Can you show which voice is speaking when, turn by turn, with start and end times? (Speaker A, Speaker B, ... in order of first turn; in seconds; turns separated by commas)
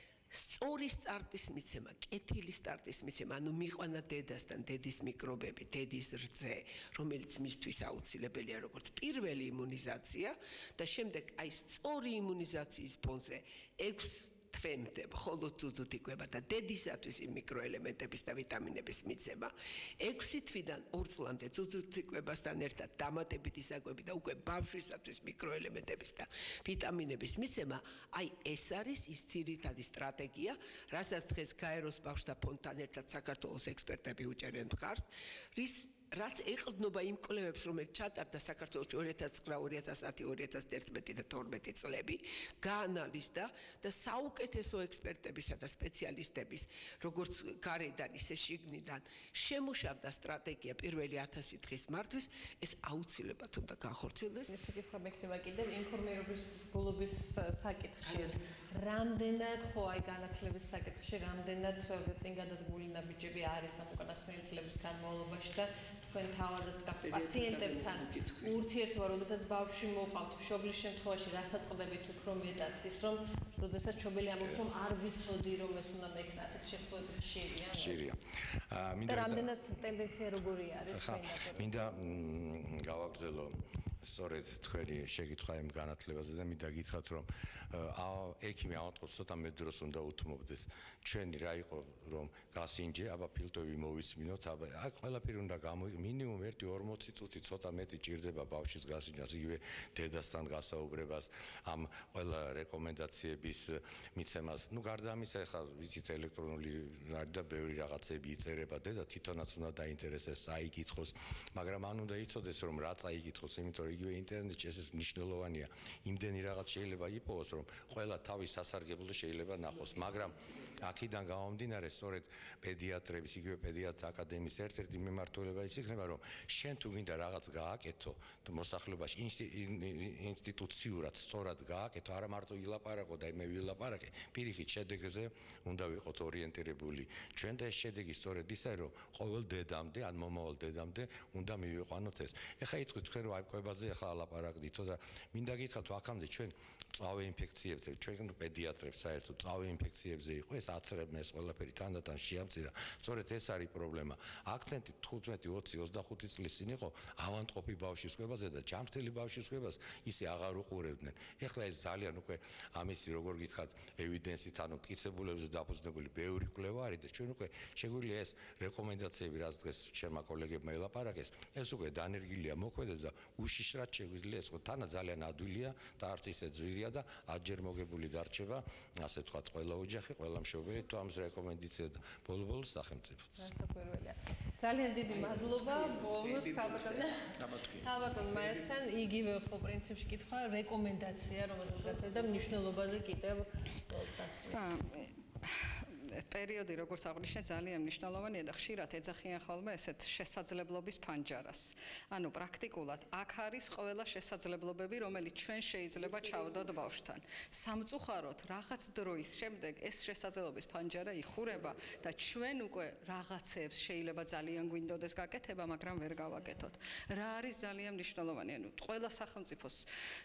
Speaker A: 0.3-54.5, Speaker B: 54.5-78.1, Speaker A: 67.0-68.6, Speaker C: 77.7-79.5, Speaker B: 79.1-82.0, Speaker C: 80.9-183.5, Speaker A: 119.7-120.8, Speaker B: 183.4-194.8, Speaker A: 185.1-188.7, Speaker D: 194.5-219.8, Speaker A: 206.1-206.7